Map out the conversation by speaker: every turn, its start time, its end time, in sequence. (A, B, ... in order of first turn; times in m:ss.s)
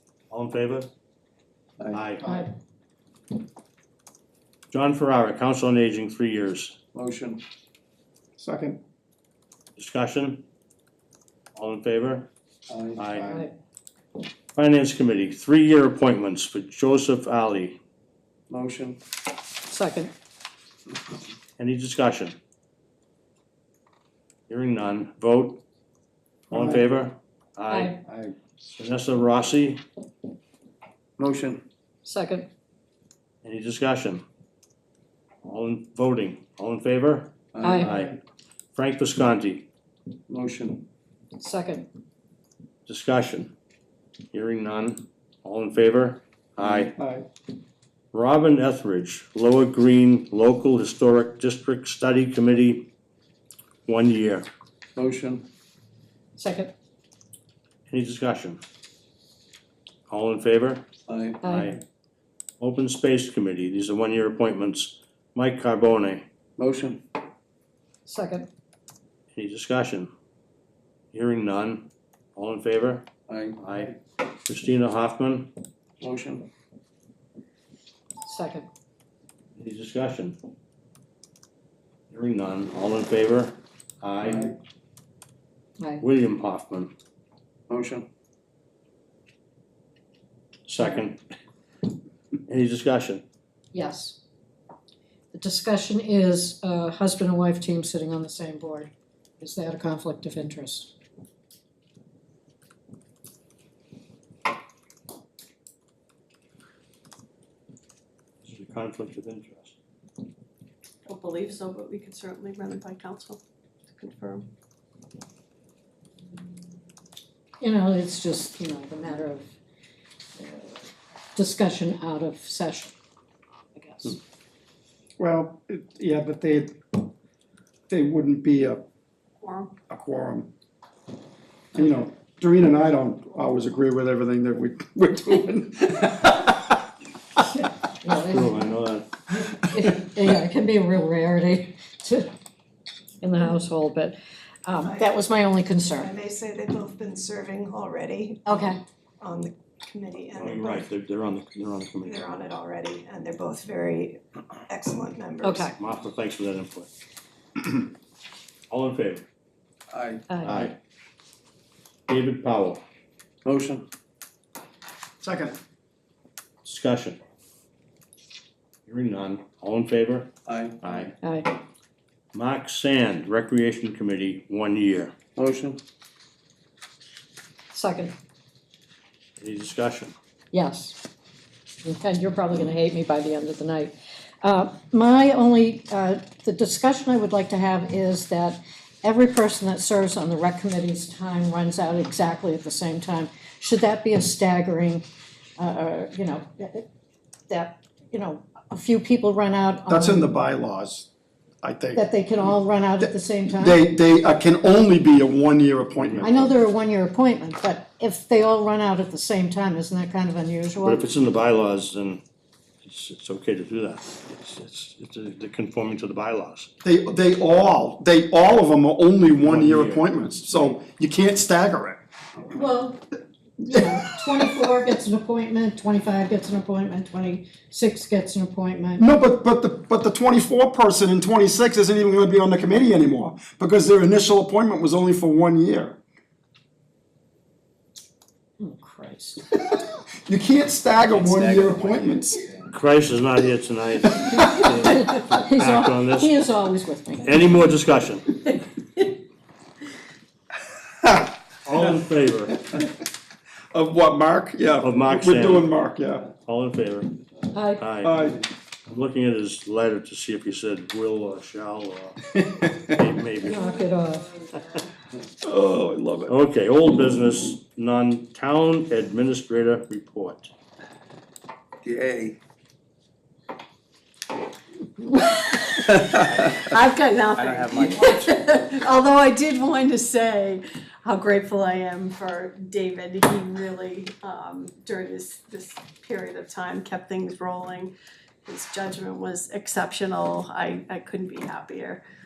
0:00.3-0:00.9 A
0:01.8-0:02.1 B
0:01.9-0:02.3 A
0:02.2-0:02.5 C
0:04.7-0:06.8 A
0:06.9-0:07.4 B
0:08.4-0:08.8 D
0:09.8-0:10.4 A
0:11.5-0:12.3 A
0:12.7-0:13.1 B
0:13.0-0:13.3 A
0:13.2-0:13.5 C
0:14.5-0:17.8 A
0:18.5-0:19.0 B
0:19.7-0:20.1 C
0:21.6-0:22.4 A
0:24.5-0:25.6 A
0:26.5-0:28.0 A
0:26.5-0:26.8 D
0:27.7-0:28.0 C
0:28.8-0:29.8 A
0:31.2-0:31.6 B
0:32.0-0:32.5 C
0:33.4-0:34.2 A
0:35.4-0:38.2 A
0:37.5-0:38.1 B
0:37.6-0:37.9 C
0:38.7-0:39.7 A
0:40.3-0:40.8 B
0:41.4-0:41.9 C
0:42.8-0:43.5 A
0:44.3-0:46.9 A
0:46.9-0:47.2 D
0:48.1-0:52.9 A
0:53.8-0:54.5 A
0:55.0-0:55.4 B
0:56.4-0:56.7 C
0:57.9-0:58.6 A
1:00.1-1:00.8 A
1:01.1-1:01.4 B
1:01.4-1:01.7 C
1:01.4-1:01.8 A
1:02.6-1:06.2 A
1:06.6-1:07.0 B
1:08.0-1:08.5 C
1:09.3-1:10.1 A
1:11.1-1:15.5 A
1:13.3-1:13.6 B
1:16.0-1:16.4 B
1:18.2-1:18.7 C
1:19.6-1:20.4 A
1:22.1-1:24.5 A
1:26.0-1:26.9 A
1:27.7-1:28.0 B
1:30.6-1:31.2 A
1:32.5-1:33.2 A
1:33.7-1:34.2 C
1:35.3-1:40.9 C
1:48.4-1:49.8 A
1:51.0-1:54.5 E
1:57.6-1:59.5 C
2:00.4-2:02.9 C
2:03.8-2:04.2 C
2:05.2-2:07.1 D
2:07.9-2:08.8 D
2:09.4-2:09.7 E
2:09.9-2:10.5 D
2:11.7-2:16.8 D
2:17.8-2:18.7 C
2:18.1-2:19.1 A
2:19.3-2:22.3 C
2:23.2-2:26.1 C
2:24.8-2:25.1 F
2:25.9-2:30.9 F
2:28.4-2:28.8 C
2:30.3-2:32.3 A
2:32.0-2:35.7 F
2:35.4-2:35.7 C
2:35.7-2:36.9 A
2:38.7-2:39.2 A
2:39.9-2:40.2 B
2:40.3-2:40.6 C
2:40.4-2:40.8 A
2:42.1-2:42.8 A
2:43.4-2:43.8 B
2:45.2-2:45.6 D
2:46.6-2:47.2 A
2:48.8-2:50.3 A
2:50.5-2:50.8 B
2:50.8-2:51.1 A
2:51.2-2:51.5 C
2:52.3-2:55.1 A
2:55.4-2:55.8 B
2:57.7-2:58.1 C
2:59.4-3:00.1 A
3:00.5-3:01.0 C
3:01.8-3:15.0 C
3:15.6-3:16.9 C
3:17.5-3:20.3 C
3:19.9-3:21.1 D
3:21.6-3:22.1 D
3:21.9-3:23.8 C
3:23.0-3:26.5 D
3:26.0-3:26.3 A
3:26.2-3:31.1 C
3:30.8-3:32.2 A
3:32.8-3:36.7 A
3:36.8-3:42.0 D
3:39.4-3:40.0 A
3:42.5-3:49.0 C
3:43.7-3:44.6 D
3:49.0-3:56.0 D
3:58.6-3:59.4 C
3:59.6-4:02.4 D
4:01.1-4:02.6 B
4:02.7-4:06.3 A
4:04.4-4:07.4 C
4:07.2-4:08.3 A
4:11.6-4:12.6 A
4:13.7-4:16.3 D
4:14.8-4:15.7 A
4:16.4-4:17.2 A
4:17.5-4:17.8 C
4:17.7-4:18.3 A
4:18.0-4:18.4 D
4:18.9-4:23.8 A
4:23.4-4:24.3 C
4:25.4-4:26.3 D
4:26.3-4:30.5 A
4:31.8-4:32.4 B
4:36.0-4:47.9 E
4:37.4-4:38.0 F
4:48.4-4:52.0 E